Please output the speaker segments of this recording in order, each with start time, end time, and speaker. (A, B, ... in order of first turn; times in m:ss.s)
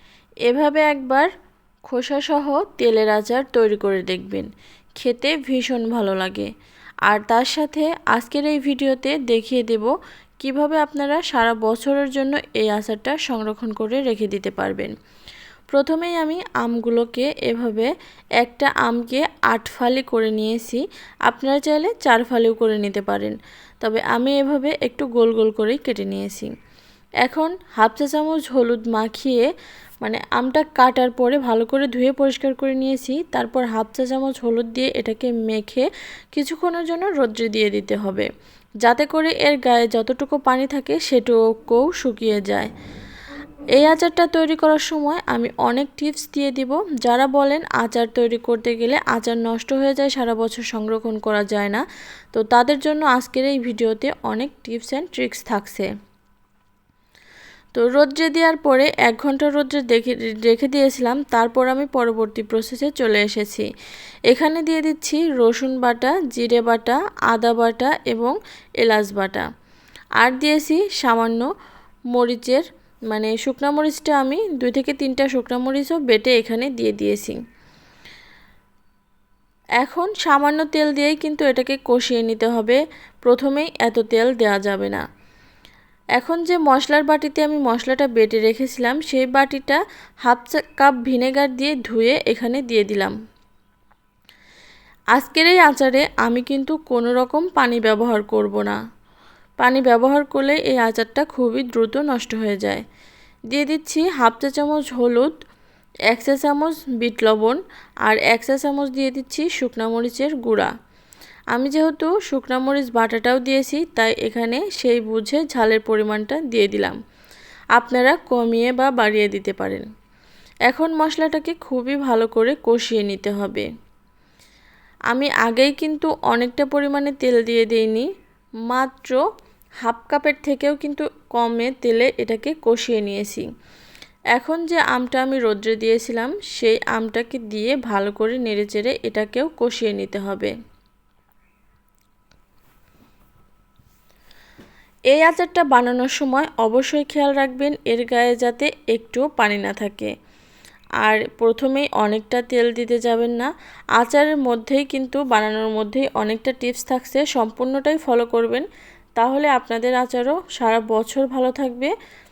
0:00.5-0:01.3 A
0:01.9-0:04.5 A
0:05.0-0:06.5 A
0:07.1-0:14.9 A
0:15.7-0:26.5 A
0:27.2-0:29.5 A
0:30.0-0:38.3 A
0:38.8-0:42.7 A
0:43.8-0:55.9 A
0:57.8-1:03.7 A
1:04.3-1:09.5 A
1:10.2-1:11.5 A
1:12.1-1:17.4 A
1:19.8-1:25.0 A
1:26.2-1:33.2 A
1:35.2-1:38.8 A
1:39.6-1:42.8 A
1:43.5-1:45.3 A
1:46.1-1:50.7 A
1:51.5-1:57.0 A
1:57.8-1:59.9 A
2:00.7-2:03.7 A
2:05.1-2:08.1 A
2:08.7-2:09.2 A
2:09.8-2:13.5 A
2:14.4-2:20.5 A
2:25.1-2:30.1 A
2:31.0-2:38.7 A
2:39.2-2:41.9 A